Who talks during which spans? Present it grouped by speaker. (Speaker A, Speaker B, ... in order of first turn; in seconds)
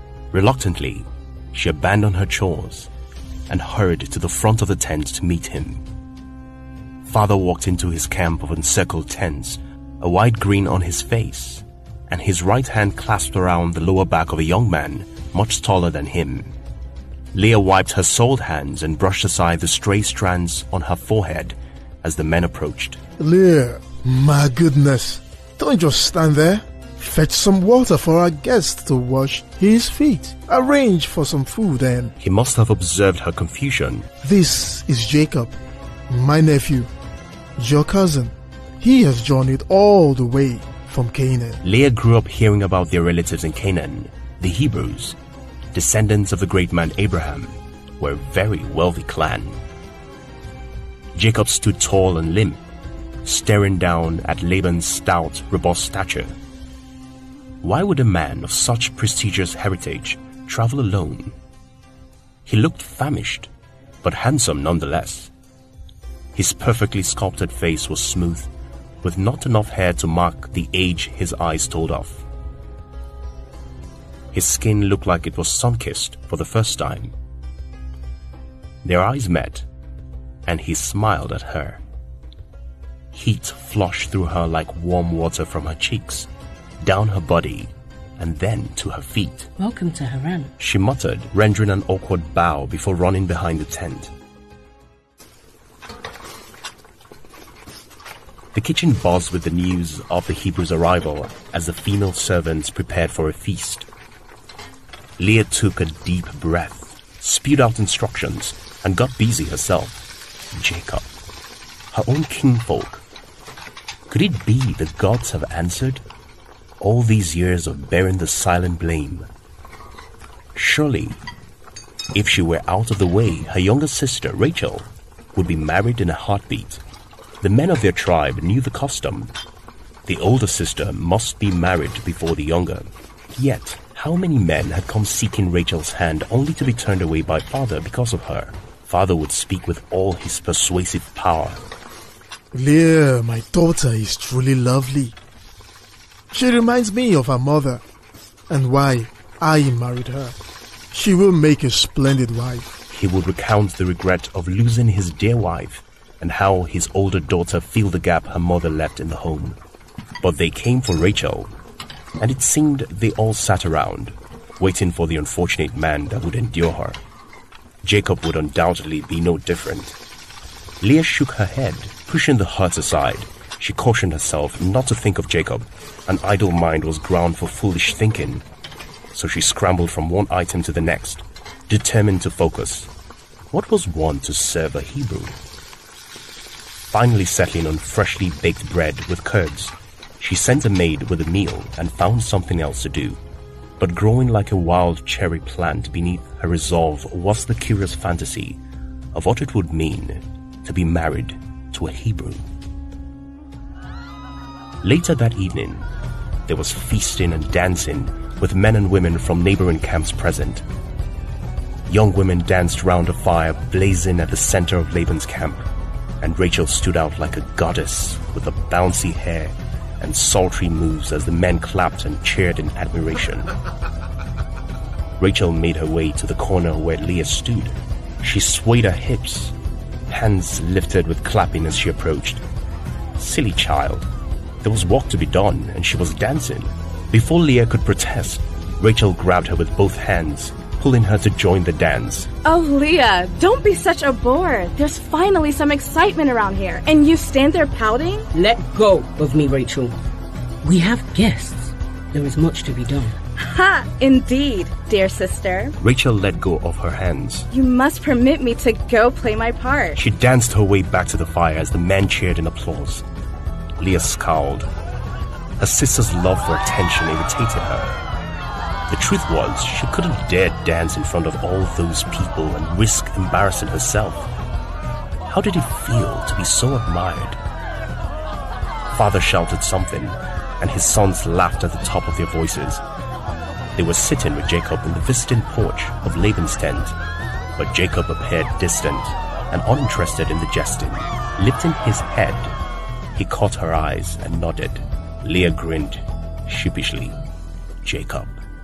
Speaker A: 0.3-2.9, 3.5-5.8, 7.0-16.6, 17.3-23.0, 32.2-34.1, 41.6-45.2, 45.7-49.6, 51.1-52.6, 53.2-56.3, 57.6-61.4, 62.5-63.5, 64.0-65.3, 66.3-68.5, 69.0-72.2, 74.3-77.2, 78.8-79.7, 80.5-81.8, 83.1-86.3, 86.8-89.5, 90.6-94.1, 98.5-103.9, 105.2-110.0, 110.5-111.1, 111.9-113.0, 114.1-116.0, 116.8-119.3, 120.5-121.2, 122.1-126.8, 127.4-129.3, 130.1-141.6, 152.9-159.6, 160.2-161.5, 162.2-167.0, 167.8-170.0, 170.8-178.4, 179.1-182.9, 183.5-185.4, 186.9-193.2, 193.8-198.6, 199.1-202.5, 204.8-205.9, 206.5-210.7, 211.9-215.7, 216.2-223.5, 225.2-229.6, 230.1-232.4, 233.2-234.1, 234.6-242.3, 255.8-257.5, 259.9-263.1, 263.8-264.7, 265.6-267.9, 268.9-274.3, 275.3-277.4, 278.9-282.8, 283.8-287.0, 287.6-292.5, 293.1-297.2, 297.8-298.4
Speaker B: 23.2-32.1, 34.2-35.5, 36.1-36.9, 37.6-41.6, 142.5-145.2, 146.3-147.8, 148.5-150.4, 150.9-152.8
Speaker C: 89.6-90.5, 248.3-250.0, 250.6-253.2
Speaker D: 242.4-248.3, 253.4-255.8, 257.5-260.0